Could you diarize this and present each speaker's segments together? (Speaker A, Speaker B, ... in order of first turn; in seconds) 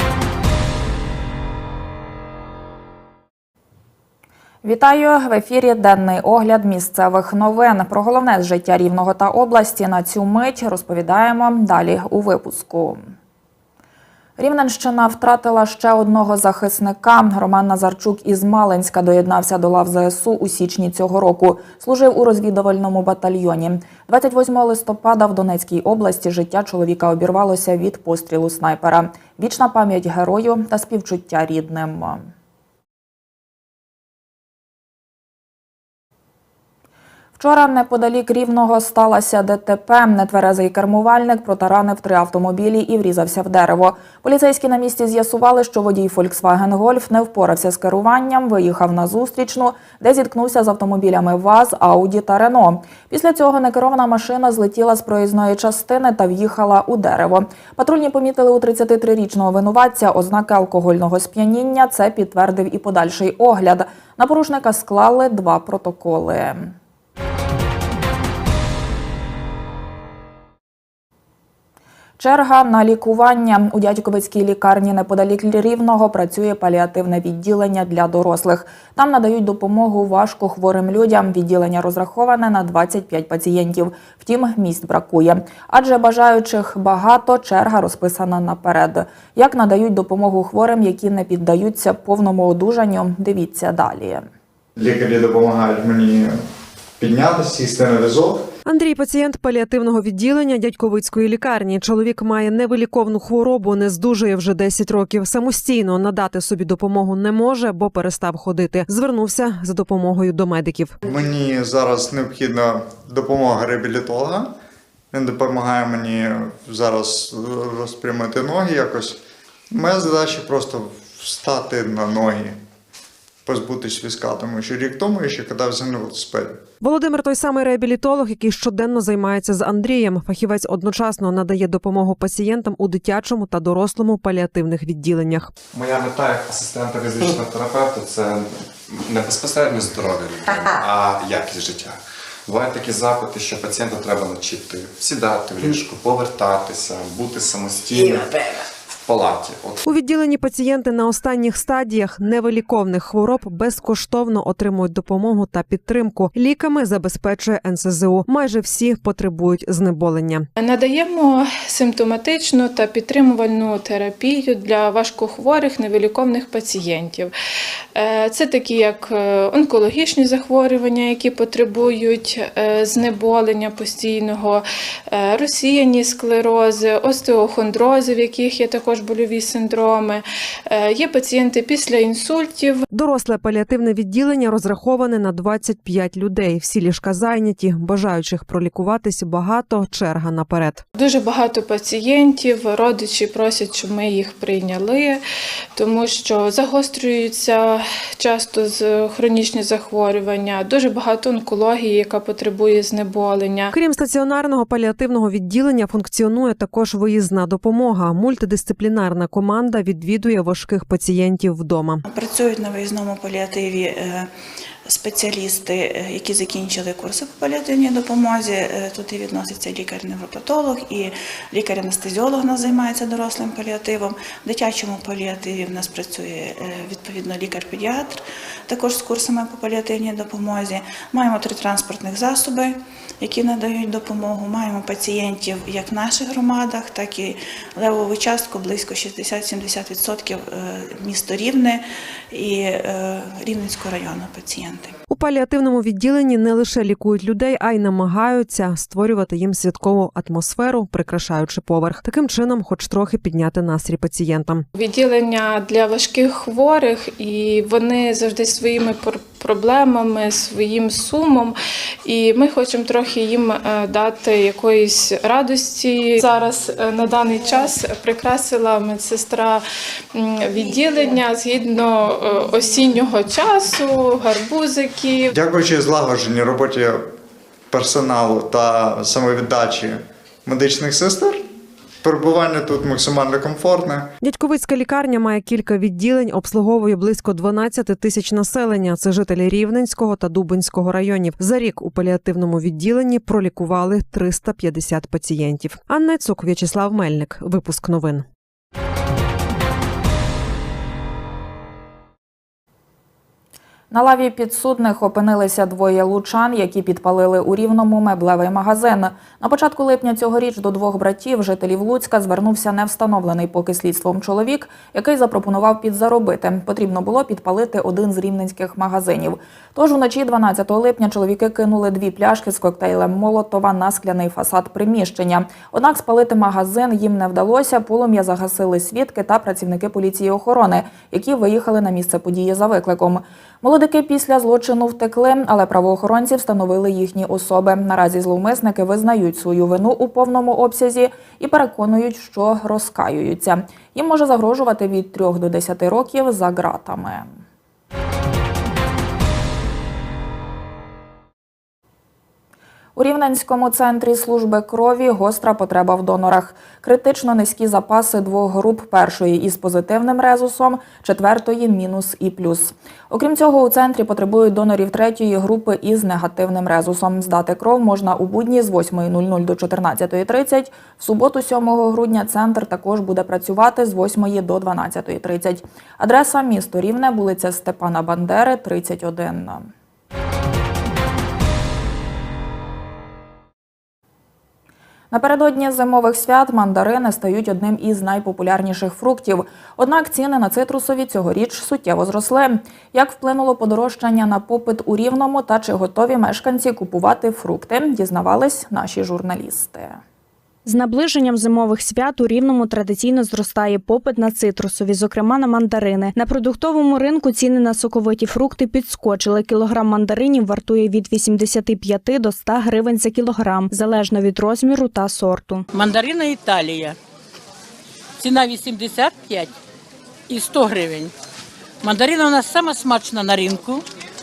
Speaker A: 4.6-13.0, 14.4-32.3, 37.4-66.8, 72.2-94.3, 303.9-347.3, 353.0-379.7, 385.1-400.0
Speaker B: 94.8-96.3, 97.0-98.4, 111.0-114.5, 115.1-119.2, 119.7-122.6, 123.5-126.6, 275.3-277.0, 277.7-281.4, 282.0-284.1
Speaker C: 98.7-111.0, 126.8-135.5, 149.8-160.5, 182.9-190.8, 203.7-212.0, 245.1-254.7, 284.2-298.2
Speaker D: 135.7-148.3, 149.0-149.8
Speaker E: 160.6-167.3, 167.9-182.8, 190.9-195.2, 195.8-203.7, 254.8-269.6, 270.1-275.3
Speaker F: 212.1-214.3, 214.9-244.9
Speaker G: 400.6-415.7
Speaker H: 415.7-417.0, 418.2-419.5, 420.3-421.1, 421.8-423.8